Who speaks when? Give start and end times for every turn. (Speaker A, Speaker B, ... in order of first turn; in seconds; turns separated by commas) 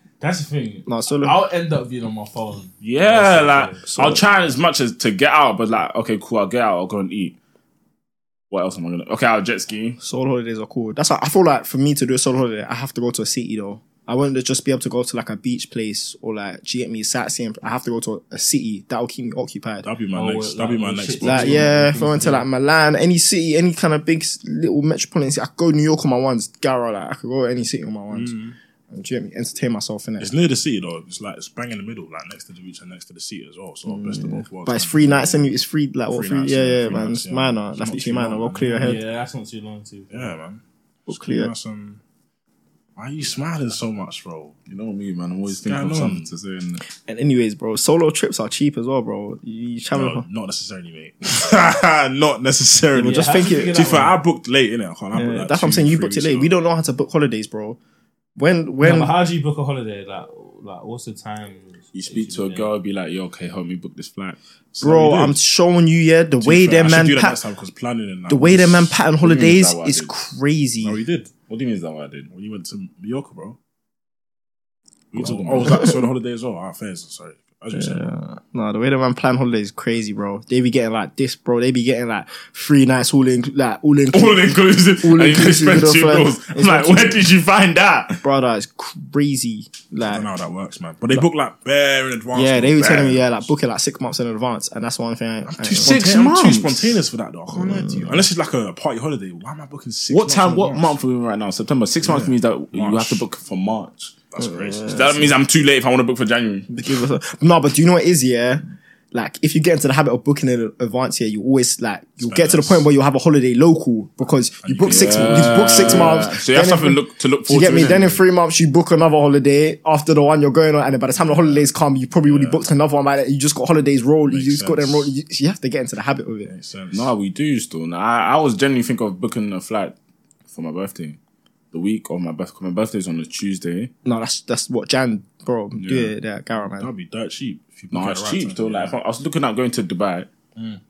Speaker A: 0.2-4.2, Speaker B: 0.9-1.4, Speaker C: 2.8-7.4, Speaker B: 3.8-4.2, Speaker C: 8.5-10.0, Speaker B: 10.0-19.9, Speaker D: 19.8-21.9, Speaker A: 20.1-22.5, Speaker B: 21.2-28.4, Speaker D: 28.1-28.6, Speaker B: 28.9-30.3, Speaker D: 30.2-35.5, Speaker B: 33.9-39.0, Speaker D: 36.1-39.0, Speaker A: 38.8-40.3, Speaker D: 40.1-42.0, Speaker B: 41.1-41.5, Speaker D: 43.0-44.6, Speaker C: 44.7-46.8, Speaker D: 45.5-46.3, Speaker B: 46.9-50.2, Speaker D: 49.9-56.5, Speaker B: 52.9-54.0, Speaker A: 53.0-54.2, Speaker B: 55.1-57.8, Speaker B: 58.4-59.2, Speaker A: 58.8-62.7, Speaker C: 61.9-64.4, Speaker D: 64.7-65.3, Speaker B: 64.8-67.4, Speaker D: 66.4-69.0, Speaker B: 68.3-71.0, Speaker C: 69.2-70.1, Speaker D: 70.8-71.3, Speaker C: 71.5-72.3, Speaker D: 72.3-73.6, Speaker D: 75.1-78.0, Speaker C: 75.1-75.9, Speaker B: 75.7-76.0, Speaker B: 77.7-84.5, Speaker C: 84.1-88.2, Speaker B: 85.0-87.3, Speaker B: 88.2-90.3, Speaker D: 90.1-93.5, Speaker B: 92.3-96.0, Speaker D: 95.4-101.0, Speaker C: 95.8-97.0, Speaker B: 97.5-98.3, Speaker C: 100.1-104.1, Speaker D: 102.0-103.2, Speaker D: 104.3-105.2, Speaker B: 104.4-105.3, Speaker C: 104.8-106.7, Speaker B: 106.7-126.5, Speaker D: 112.2-112.9, Speaker D: 114.6-116.2, Speaker C: 114.8-118.2, Speaker D: 121.2-121.7, Speaker D: 122.2-122.6, Speaker D: 124.3-125.1, Speaker D: 126.5-127.1, Speaker C: 126.9-129.9, Speaker C: 130.5-131.2, Speaker C: 131.7-133.9, Speaker B: 134.0-136.9, Speaker C: 135.7-136.1, Speaker D: 136.6-139.0, Speaker C: 137.9-140.3, Speaker D: 140.6-140.8